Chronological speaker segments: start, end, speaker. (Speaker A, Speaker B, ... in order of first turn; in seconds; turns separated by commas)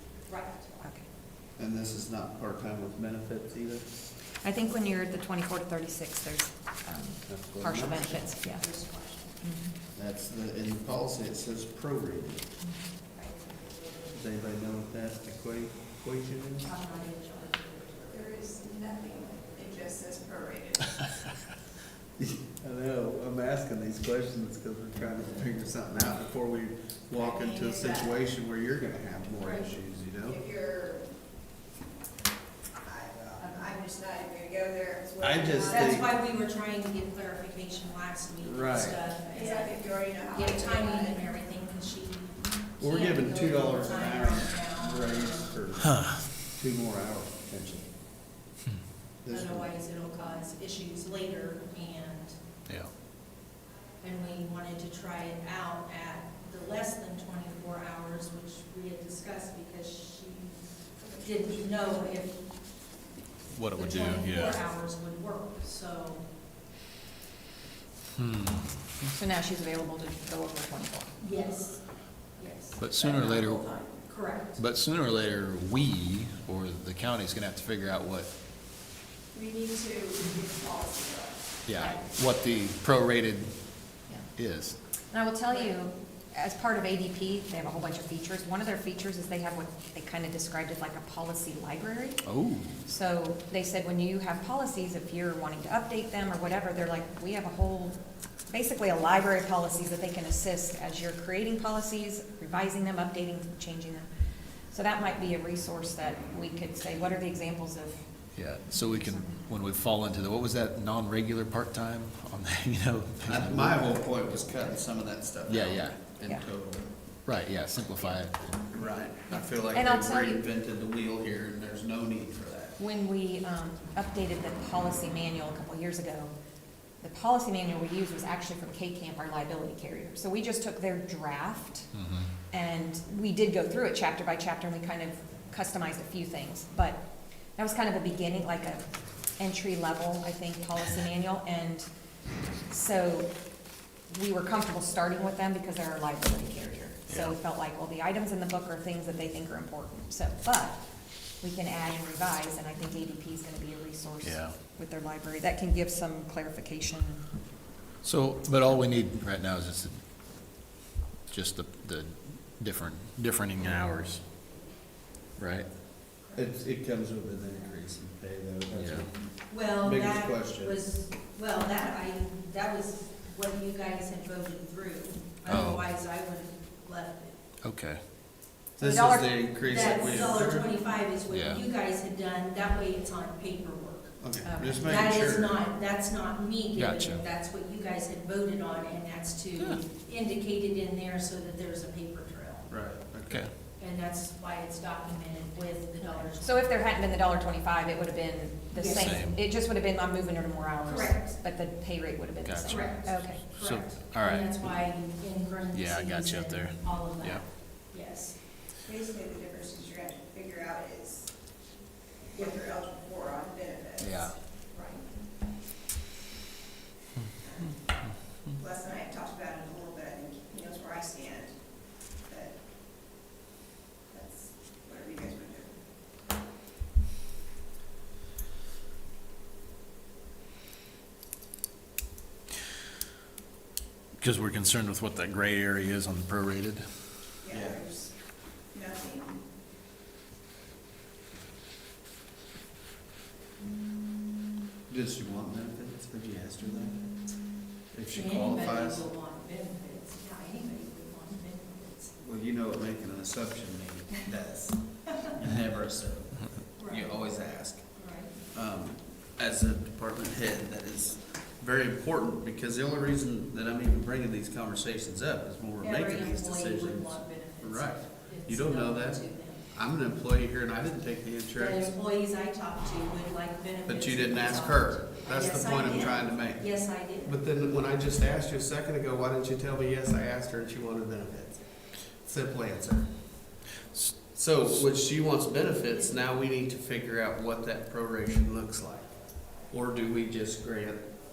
Speaker A: 0.3-0.7, Speaker B: 1.6-3.9, Speaker C: 4.4-8.6, Speaker B: 7.3-8.3, Speaker A: 8.6-9.4, Speaker C: 9.4-9.7, Speaker B: 9.9-12.4, Speaker A: 13.1-13.7, Speaker B: 14.1-16.7, Speaker A: 16.6-18.2, Speaker D: 18.1-21.0, Speaker B: 22.2-30.4, Speaker D: 27.2-28.1, Speaker A: 29.4-29.7, Speaker D: 30.2-31.1, Speaker D: 32.8-36.0, Speaker B: 35.2-36.1, Speaker A: 35.7-45.6, Speaker B: 38.4-39.0, Speaker D: 39.3-41.2, Speaker B: 42.8-47.9, Speaker B: 49.2-49.7, Speaker A: 49.3-52.4, Speaker A: 54.0-60.6, Speaker A: 61.2-62.4, Speaker E: 63.5-64.6, Speaker A: 63.7-66.2, Speaker E: 68.2-69.1, Speaker C: 69.1-71.2, Speaker A: 71.2-73.3, Speaker E: 72.8-73.8, Speaker A: 74.1-74.6, Speaker E: 74.6-78.3, Speaker D: 79.3-81.4, Speaker E: 81.7-83.5, Speaker E: 84.4-84.8, Speaker C: 85.1-92.2, Speaker E: 92.2-92.7, Speaker C: 92.8-104.1, Speaker C: 104.7-108.1, Speaker E: 108.3-113.8, Speaker C: 108.8-109.4, Speaker B: 113.3-116.9, Speaker E: 115.5-116.0, Speaker E: 117.3-118.6, Speaker B: 118.7-122.8, Speaker C: 119.3-120.4, Speaker C: 122.8-126.3, Speaker C: 127.0-131.9, Speaker E: 131.9-132.3, Speaker C: 132.5-141.9, Speaker C: 142.7-143.3, Speaker C: 144.1-157.2, Speaker E: 147.1-147.4, Speaker E: 154.2-154.6, Speaker E: 158.0-160.0, Speaker E: 161.3-164.2, Speaker E: 165.4-165.7, Speaker B: 166.3-170.8, Speaker E: 168.7-169.1, Speaker A: 169.5-177.3, Speaker E: 175.4-175.9, Speaker E: 177.6-178.0, Speaker C: 178.8-179.3, Speaker B: 178.8-180.7, Speaker A: 179.6-192.7, Speaker E: 181.3-181.6, Speaker B: 184.2-185.6, Speaker C: 184.4-184.9, Speaker E: 186.8-187.2, Speaker B: 192.7-193.5, Speaker A: 193.8-196.8, Speaker C: 196.0-203.4, Speaker A: 198.7-199.2, Speaker E: 198.9-199.4, Speaker A: 200.8-201.4, Speaker E: 202.4-204.6, Speaker A: 202.7-208.4, Speaker E: 205.7-207.4, Speaker D: 208.8-211.3, Speaker D: 212.3-214.3, Speaker E: 214.0-214.4, Speaker A: 214.7-215.0, Speaker D: 217.4-217.8, Speaker D: 218.6-222.6, Speaker D: 224.1-225.7, Speaker E: 234.2-236.9, Speaker D: 237.4-239.3, Speaker B: 244.9-249.1, Speaker A: 248.1-252.1, Speaker B: 252.2-271.9, Speaker A: 256.8-257.2, Speaker A: 257.9-258.3, Speaker A: 265.8-269.6, Speaker A: 271.6-277.3, Speaker B: 273.9-283.6, Speaker B: 284.3-291.1